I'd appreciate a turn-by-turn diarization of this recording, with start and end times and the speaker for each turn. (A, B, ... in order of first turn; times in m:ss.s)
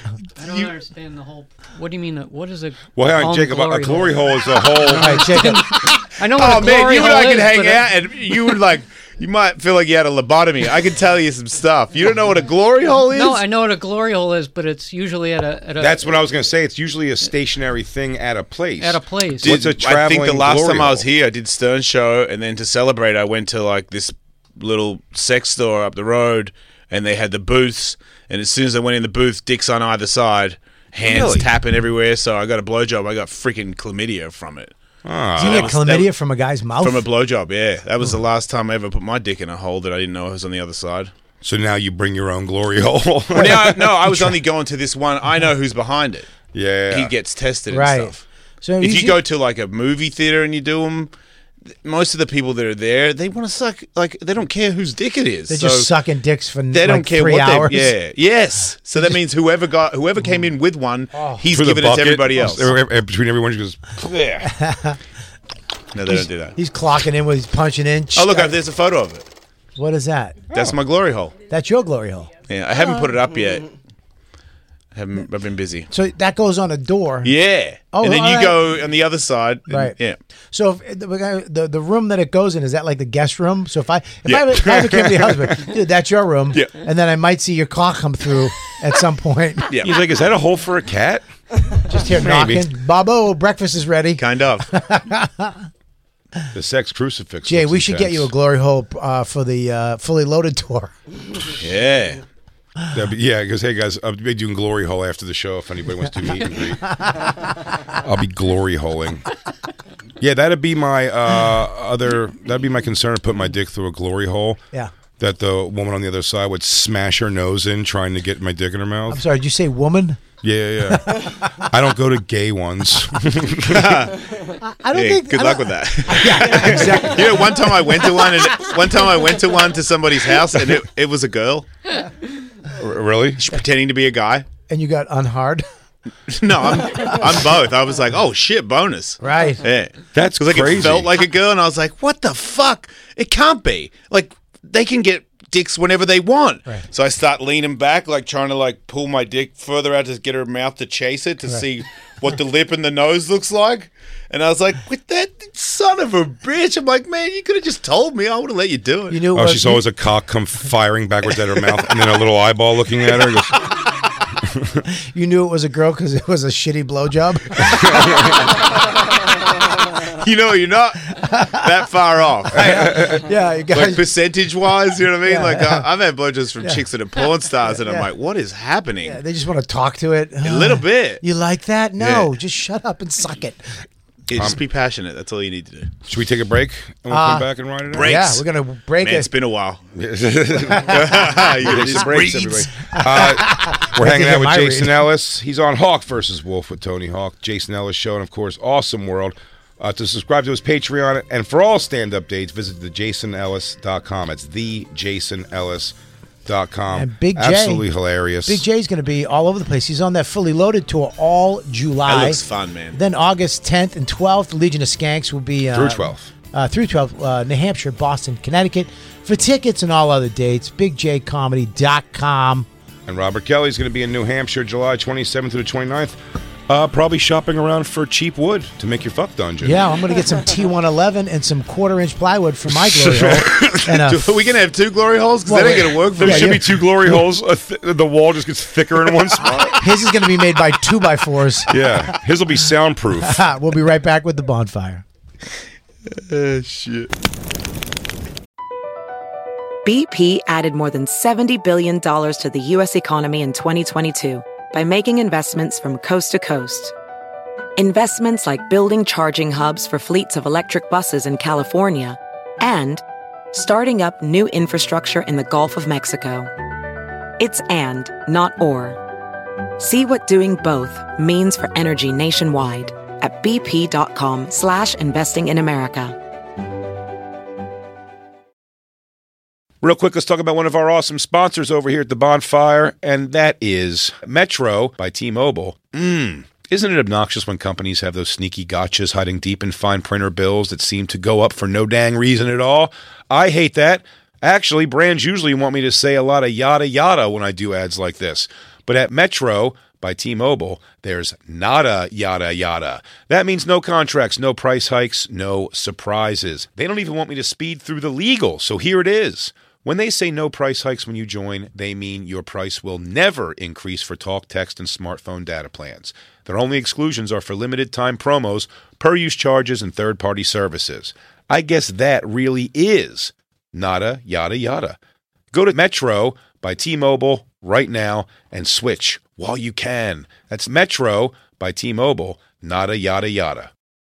0:00.4-0:07.9 A
0:00.4-0:00.7 B
0:03.0-0:05.4 C
0:05.0-0:05.8 D
0:06.3-0:13.4 B
0:13.1-0:16.2 A
0:15.8-0:21.0 C
0:18.8-0:19.5 A
0:19.4-0:34.7 B
0:31.1-0:31.5 C
0:35.0-0:35.8 C
0:35.4-0:36.1 B
0:35.4-0:37.1 D
0:36.8-0:41.1 B
0:41.4-0:43.9 C
0:43.4-0:46.3 B
0:43.4-0:44.3 D
0:46.5-0:47.1 C
0:46.9-0:48.2 B
0:47.7-0:49.2 D
0:48.8-0:51.1 B
0:51.8-0:55.9 B
0:55.5-0:58.0 D
0:56.7-1:02.7 B
1:01.1-1:01.4 D
1:01.5-1:04.5 C
1:04.4-1:05.0 D
1:05.9-1:06.6 B
1:06.1-1:08.6 D
1:08.2-1:09.3 B
1:09.8-1:10.5 D
1:10.5-1:11.4 B
1:11.5-1:13.0 D
1:12.5-1:13.7 B
1:15.0-1:15.9 B
1:15.9-1:17.3 D
1:17.2-1:20.2 B
1:17.9-1:18.6 D
1:19.7-1:20.0 D
1:20.5-1:29.7 D
1:24.3-1:24.8 B
1:24.8-1:25.3 C
1:29.7-1:30.0 B
1:29.8-1:31.3 C
1:31.9-1:35.6 D
1:32.0-1:32.7 C
1:34.2-1:34.7 B
1:36.5-1:38.3 C
1:37.5-1:40.9 D
1:41.6-1:42.2 B
1:42.9-1:47.0 C
1:46.8-1:47.3 D
1:48.0-1:49.2 C
1:50.2-1:54.6 C
1:55.2-1:59.2 C
1:59.1-2:00.2 D
2:00.4-2:04.0 C
2:00.9-2:01.7 D
2:03.7-2:11.7 B
2:04.6-2:08.0 D
2:12.8-2:13.4 C
2:13.4-2:14.5 B
2:14.7-2:15.6 D
2:16.3-2:39.2 B
2:19.2-2:19.6 D
2:20.1-2:21.1 C
2:39.1-2:39.9 D
2:39.3-2:43.6 C
2:44.4-2:44.8 C
2:45.1-2:48.3 D
2:47.7-2:48.4 C
2:50.1-2:52.9 B
2:51.1-2:51.6 D
2:52.5-2:54.0 D
2:52.6-2:53.2 C
2:53.7-2:59.2 B
2:55.3-2:55.8 D
2:57.6-2:58.1 D
2:59.0-3:03.6 D
3:00.4-3:01.2 B
3:02.0-3:02.3 B
3:04.3-3:05.9 B
3:06.1-3:08.2 C
3:07.1-3:07.5 D
3:07.9-3:08.4 B
3:08.0-3:09.3 D
3:09.0-3:09.8 B
3:10.0-3:26.0 C
3:10.8-3:11.1 D
3:10.8-3:12.7 B
3:12.8-3:15.1 D
3:26.5-3:28.6 C
3:26.9-3:27.9 D
3:28.4-3:32.4 D
3:32.1-3:33.0 B
3:32.9-3:42.7 D
3:35.7-3:36.3 C
3:43.1-3:49.8 C
3:49.6-3:54.2 D
3:52.7-3:54.0 C
3:54.1-3:56.6 B
3:55.5-3:56.8 D
3:56.2-3:59.8 C
3:59.8-4:01.7 D
4:01.7-4:03.4 C
4:03.2-4:05.0 D
4:06.1-4:07.1 B
4:09.8-4:16.9 E
4:17.8-4:26.5 E
4:27.4-4:29.0 E
4:29.8-4:36.2 E
4:39.8-5:25.0 C
5:25.5-5:33.7 C